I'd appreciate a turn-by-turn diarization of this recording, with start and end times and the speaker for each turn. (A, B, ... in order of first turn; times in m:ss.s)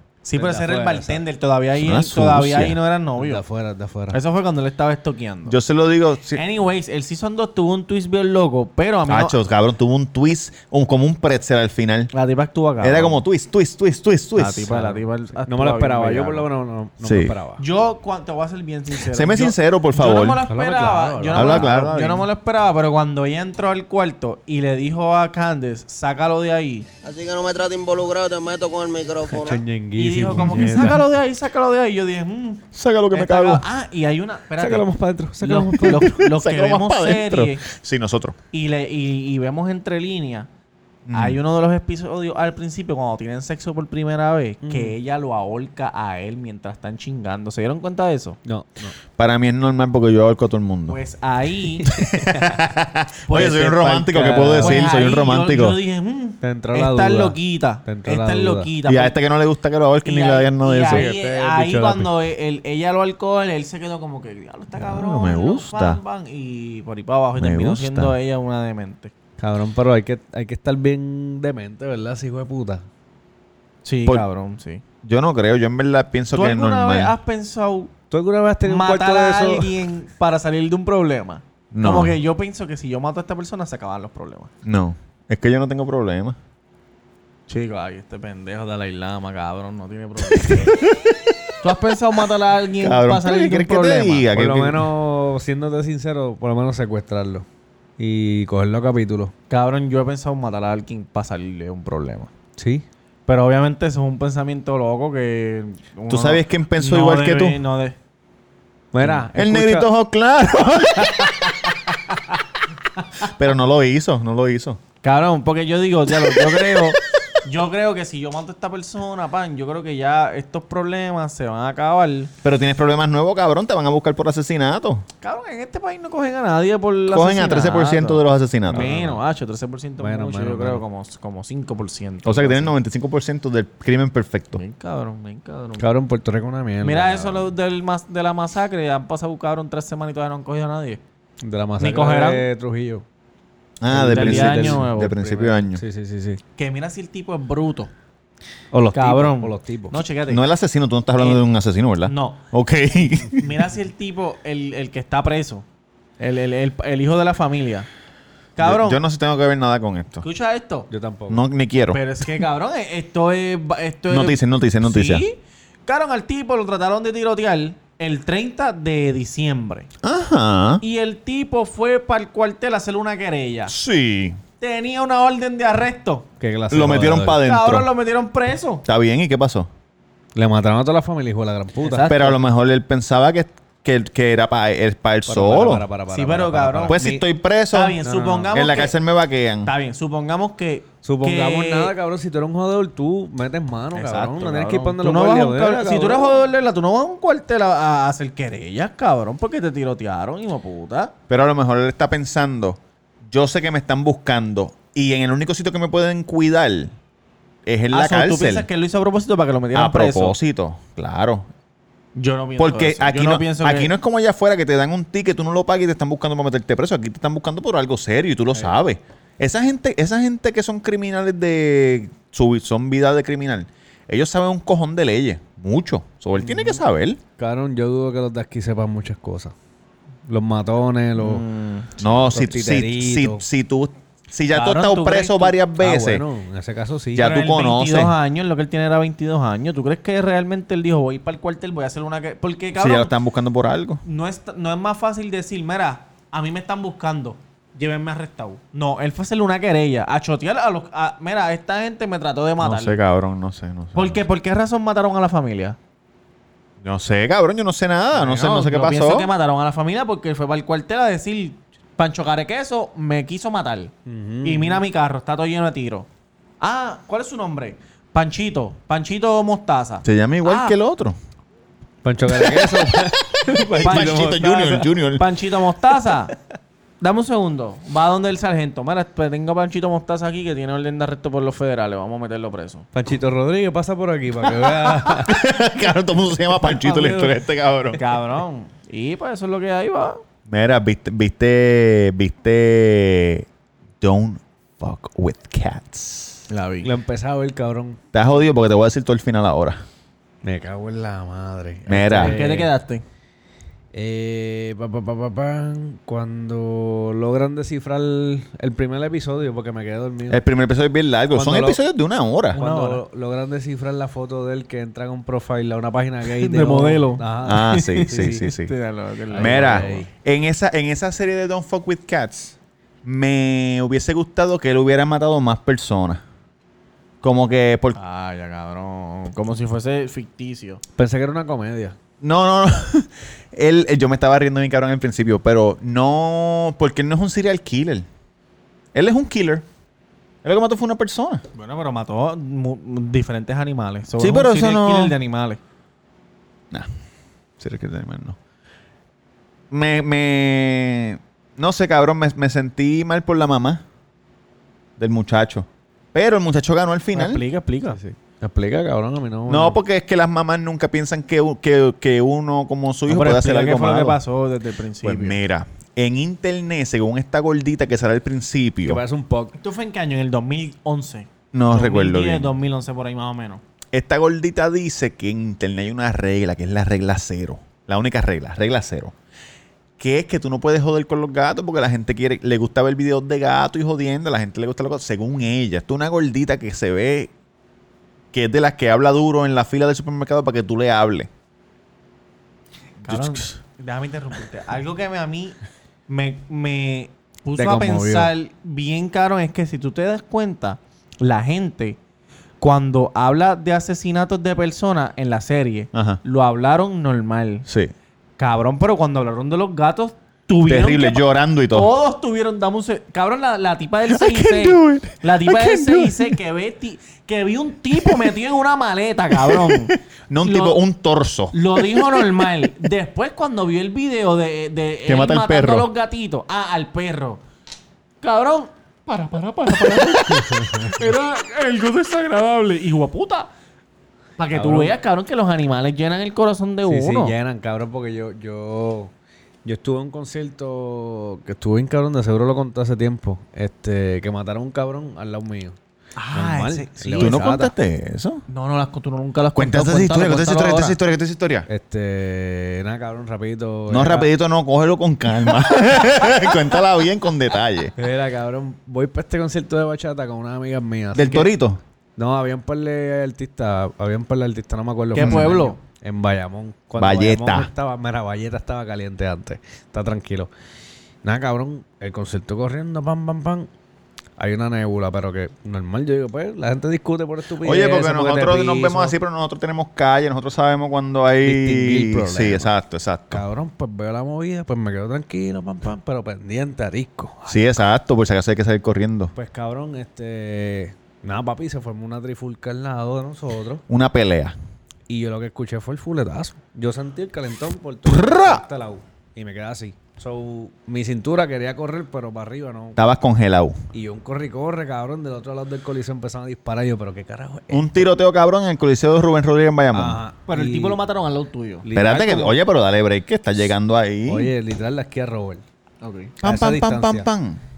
0:00.2-0:03.4 A
0:00.4-0:01.2 B
0:01.8-0:02.8 C
0:03.2-0:04.2 B
0:04.1-0:05.6 A
0:05.5-0:06.4 C
0:06.3-0:09.4 A
0:09.1-0:12.1 C
0:12.1-0:13.2 A
0:12.8-0:14.7 C
0:14.4-0:16.5 A
0:14.6-0:17.6 B
0:17.0-0:17.3 C
0:17.6-0:26.9 A
0:19.0-0:20.4 C
0:20.4-0:21.9 B
0:21.3-0:22.3 C
0:27.0-0:29.6 D
0:29.3-0:31.1 B
0:30.0-0:34.9 A
0:32.7-0:33.6 C
0:34.6-0:36.2 B
0:35.4-0:37.6 A
0:35.8-0:38.4 C
0:38.5-0:40.5 A
0:41.1-0:41.4 C
0:41.1-0:48.4 A
0:44.6-0:45.0 B
0:48.4-0:48.9 B
0:49.2-0:51.0 C
0:50.9-0:51.9 A
0:51.9-0:52.6 B
0:51.9-0:55.8 C
0:53.3-0:59.2 A
0:54.1-0:55.1 B
0:56.4-0:58.7 B
0:58.9-1:01.1 C
1:00.0-1:09.1 A
1:00.9-1:02.1 B
1:04.8-1:06.0 C
1:07.4-1:08.1 C
1:09.4-1:12.8 B
1:13.8-1:14.8 A
1:15.0-1:17.1 C
1:16.3-1:17.9 A
1:18.1-1:19.9 B
1:18.6-1:24.5 A
1:21.7-1:22.2 C
1:24.6-1:26.4 C
1:27.5-1:30.8 A
1:30.8-1:31.4 C
1:31.6-1:34.3 A
1:32.8-1:34.9 C
1:34.3-1:37.4 B
1:38.0-1:39.3 B
1:39.5-1:42.3 A
1:42.6-1:42.8 B
1:43.3-1:48.0 A
1:46.1-1:47.6 C
1:48.9-1:49.9 B
1:49.3-1:51.6 C
1:53.2-1:54.8 C
1:55.0-2:02.3 A
1:56.3-1:56.9 C
2:02.4-2:05.0 C
2:05.2-2:12.7 A
2:07.1-2:09.2 C
2:10.0-2:10.8 B
2:12.2-2:14.6 C
2:14.5-2:15.8 A
2:15.8-2:17.5 B
2:16.8-2:21.0 A
2:21.4-2:23.0 B
2:21.8-2:22.4 A
2:23.8-2:25.8 C
2:23.9-2:26.4 B
2:24.1-2:25.3 A
2:26.6-2:27.9 A
2:28.7-2:30.0 B
2:28.9-2:30.4 A
2:30.3-2:33.5 C
2:32.0-2:32.4 A
2:33.4-2:35.6 A
2:36.2-2:37.9 A
2:38.6-2:39.0 A
2:38.6-2:40.2 C
2:40.2-2:40.9 A
2:40.9-2:41.4 B
2:41.3-2:42.0 C
2:41.9-2:49.9 A
2:44.1-2:45.2 C
2:50.0-2:50.8 C
2:50.8-2:53.7 A
2:53.7-2:54.4 C
2:54.6-2:56.3 A
2:56.4-2:57.4 B
2:56.7-2:57.9 C
2:57.4-2:58.8 A
2:58.8-2:59.7 C
3:00.3-3:02.1 B
3:01.8-3:02.4 A
3:02.1-3:05.8 C
3:05.2-3:07.2 B
3:06.1-3:07.0 A
3:06.9-3:08.0 C
3:07.7-3:08.9 A
3:08.0-3:08.6 B
3:08.5-3:09.7 C
3:09.6-3:11.9 A
3:11.0-3:16.4 B
3:13.9-3:21.1 A
3:21.3-3:26.9 C
3:27.6-3:28.7 C
3:27.9-3:30.4 A
3:29.7-3:31.5 C
3:32.2-3:33.9 A
3:32.6-3:47.2 C
3:46.4-3:46.8 B
3:47.4-3:49.5 B
3:50.3-3:51.4 B
3:51.2-3:51.9 A
3:52.0-3:53.4 B
3:52.0-3:56.2 C
3:54.5-3:55.6 A
3:55.8-3:57.3 B
3:57.2-3:58.1 C
3:57.2-4:03.1 A
4:02.7-4:04.0 C
4:04.0-4:13.0 A
4:12.6-4:14.2 C
4:13.9-4:15.8 A
4:16.8-4:19.3 C
4:18.1-4:18.5 B
4:18.3-4:23.9 A
4:24.0-4:24.8 B
4:24.4-4:26.1 A
4:26.6-4:30.8 A
4:30.0-4:31.2 C
4:32.0-4:34.9 B
4:32.4-4:33.0 C
4:33.5-4:35.2 C
4:33.8-4:36.3 A
4:37.0-4:42.8 A
4:42.9-4:45.4 B
4:45.0-4:48.0 C
4:46.6-4:47.4 B
4:48.0-4:50.2 A
4:50.5-4:53.5 C
4:54.0-4:56.4 C
4:56.5-4:56.9 A
4:56.8-4:58.0 B
4:58.1-4:59.8 C
5:00.4-5:02.7 B
5:01.9-5:02.4 C
5:02.2-5:03.0 A
5:03.9-5:10.4 B
5:10.3-5:12.6 C
5:11.3-5:11.8 B
5:12.5-5:13.0 A
5:12.5-5:18.5 B
5:16.3-5:20.0 A
5:17.4-5:18.7 C
5:19.3-5:20.1 B
5:19.4-5:26.2 C
5:27.2-5:28.0 C
5:27.9-5:30.8 A
5:31.0-5:32.0 B
5:32.2-5:38.1 C
5:38.9-5:39.6 C
5:40.4-5:41.4 C
5:41.6-5:45.6 A
5:44.2-5:45.1 C
5:47.6-5:48.4 C
5:49.7-5:53.8 C
5:55.0-5:57.4 C
5:57.1-5:58.0 A
5:57.9-5:59.8 B
5:59.5-6:04.2 C
6:03.1-6:05.4 A
6:05.0-6:09.0 C
6:08.8-6:09.6 B
6:09.6-6:13.6 A
6:11.5-6:12.5 C
6:13.9-6:19.1 C
6:20.0-6:27.3 C
6:28.3-6:31.3 C
6:33.0-6:33.6 C
6:33.0-6:42.0 A
6:37.5-6:38.3 B
6:42.6-6:47.6 A
6:45.9-6:46.2 C
6:47.7-6:47.9 C
6:48.4-7:00.8 A
6:50.6-6:51.9 C
6:54.1-6:56.3 C
6:59.4-7:02.5 C
7:01.5-7:07.4 A
7:05.0-7:05.9 C
7:08.2-7:13.5 A
7:09.9-7:11.0 B
7:14.4-7:17.3 A
7:14.5-7:15.0 B
7:16.8-7:19.1 B
7:19.6-7:25.8 B
7:26.2-7:27.4 A
7:26.3-7:27.7 B
7:27.2-7:28.4 C
7:28.5-7:31.0 A
7:29.5-7:31.7 C
7:31.7-7:34.3 B
7:33.9-7:37.9 C
7:38.0-7:41.5 B
7:41.1-7:41.8 C
7:42.2-7:50.5 B
7:45.1-7:45.8 A
7:45.2-7:45.5 C
7:47.0-7:47.7 C
7:51.2-7:53.7 B
7:54.4-7:59.2 B
7:57.6-8:03.4 C
8:01.4-8:02.7 B
8:03.3-8:07.9 B
8:07.5-8:09.3 C
8:09.3-8:13.8 B
8:13.9-8:14.5 C
8:15.1-8:23.0 B
8:18.1-8:18.6 C
8:23.0-8:23.8 C
8:23.9-8:28.1 B
8:27.7-8:30.2 C
8:29.9-8:31.0 B
8:30.5-8:31.8 A
8:31.8-8:32.6 B
8:31.9-8:34.5 C
8:34.3-8:35.6 B
8:36.0-8:36.3 A
8:36.4-8:37.3 B
8:36.4-8:37.6 C